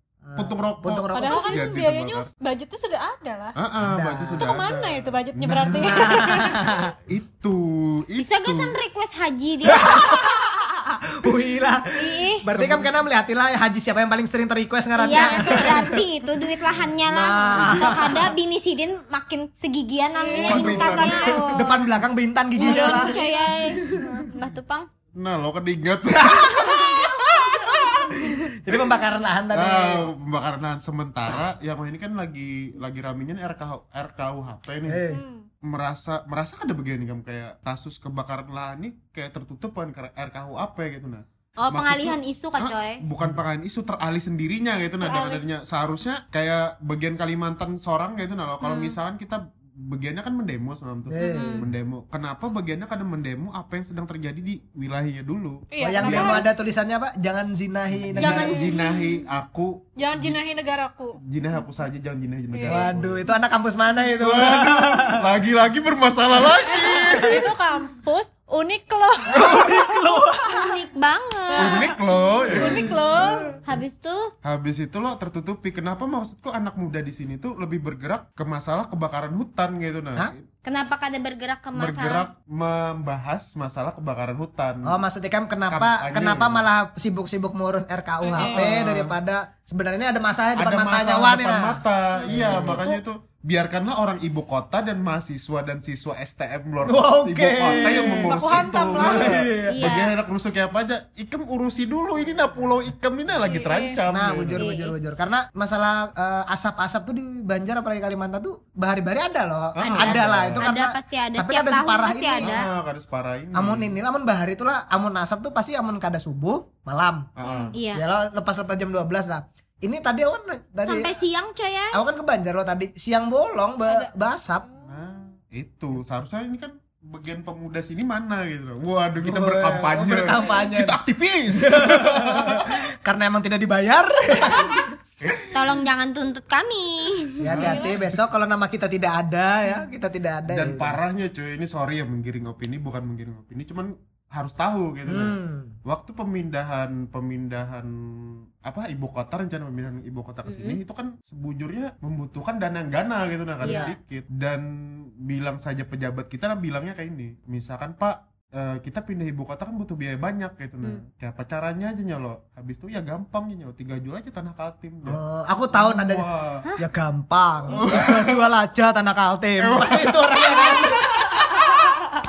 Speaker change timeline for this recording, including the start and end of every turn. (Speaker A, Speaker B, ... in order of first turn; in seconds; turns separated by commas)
Speaker A: 0.2-1.7, Speaker B: 0.4-2.3, Speaker C: 1.1-3.6, Speaker B: 3.6-6.5, Speaker A: 3.8-4.5, Speaker C: 4.4-6.8, Speaker A: 5.5-7.0, Speaker B: 7.1-8.8, Speaker D: 8.2-10.3, Speaker A: 9.6-16.0, Speaker D: 11.9-12.5, Speaker B: 12.5-12.9, Speaker D: 15.0-21.8, Speaker C: 15.1-15.8, Speaker A: 17.1-18.3, Speaker B: 17.5-18.3, Speaker C: 20.2-21.4, Speaker B: 20.4-21.6, Speaker A: 20.5-23.2, Speaker D: 22.6-24.9, Speaker C: 22.7-23.5, Speaker A: 23.7-24.2, Speaker B: 25.1-28.9, Speaker A: 26.1-30.1, Speaker B: 29.5-35.0, Speaker A: 34.9-35.2, Speaker C: 35.1-35.5, Speaker B: 35.6-56.5, Speaker D: 41.6-43.0, Speaker C: 45.0-45.4, Speaker D: 48.6-49.0, Speaker A: 51.1-51.7, Speaker D: 51.2-51.7, Speaker C: 55.7-56.7, Speaker A: 55.8-58.6, Speaker B: 57.9-60.4, Speaker D: 58.2-59.0, Speaker C: 58.2-58.7, Speaker C: 60.0-61.2, Speaker B: 61.2-63.3, Speaker C: 62.5-62.9, Speaker A: 62.7-65.2, Speaker B: 64.2-67.5, Speaker A: 66.4-67.4, Speaker C: 66.7-70.2, Speaker A: 69.3-70.8, Speaker D: 70.5-71.9, Speaker C: 71.5-71.9, Speaker B: 71.6-73.0, Speaker A: 72.5-73.6, Speaker C: 72.5-73.6, Speaker D: 73.7-74.3, Speaker B: 74.4-80.5, Speaker D: 80.7-82.3, Speaker B: 81.8-85.0, Speaker A: 84.8-93.0, Speaker B: 85.7-86.7, Speaker C: 88.2-88.7, Speaker B: 88.3-89.2, Speaker B: 90.6-104.6, Speaker A: 96.9-98.4, Speaker C: 97.7-99.4, Speaker A: 98.9-99.9, Speaker D: 99.7-100.1, Speaker C: 103.4-104.0, Speaker A: 104.1-112.7, Speaker D: 104.6-104.9, Speaker B: 109.8-110.7, Speaker D: 109.9-112.7, Speaker B: 112.4-114.0, Speaker A: 113.5-117.3, Speaker B: 117.4-117.8, Speaker C: 117.5-117.8, Speaker D: 117.7-118.0, Speaker A: 117.9-121.1, Speaker D: 120.8-122.0, Speaker A: 121.9-124.7, Speaker C: 123.9-125.0, Speaker B: 124.8-132.8, Speaker A: 129.2-131.0, Speaker A: 131.5-134.9, Speaker B: 135.2-135.8, Speaker D: 135.5-137.7, Speaker A: 137.4-141.0, Speaker B: 137.5-138.0, Speaker C: 137.6-138.1, Speaker B: 140.5-166.7, Speaker A: 145.1-145.8, Speaker D: 150.5-150.8, Speaker D: 153.6-153.9, Speaker A: 153.6-153.9, Speaker A: 165.1-172.0, Speaker B: 167.7-168.4, Speaker B: 169.6-170.9, Speaker D: 170.4-170.7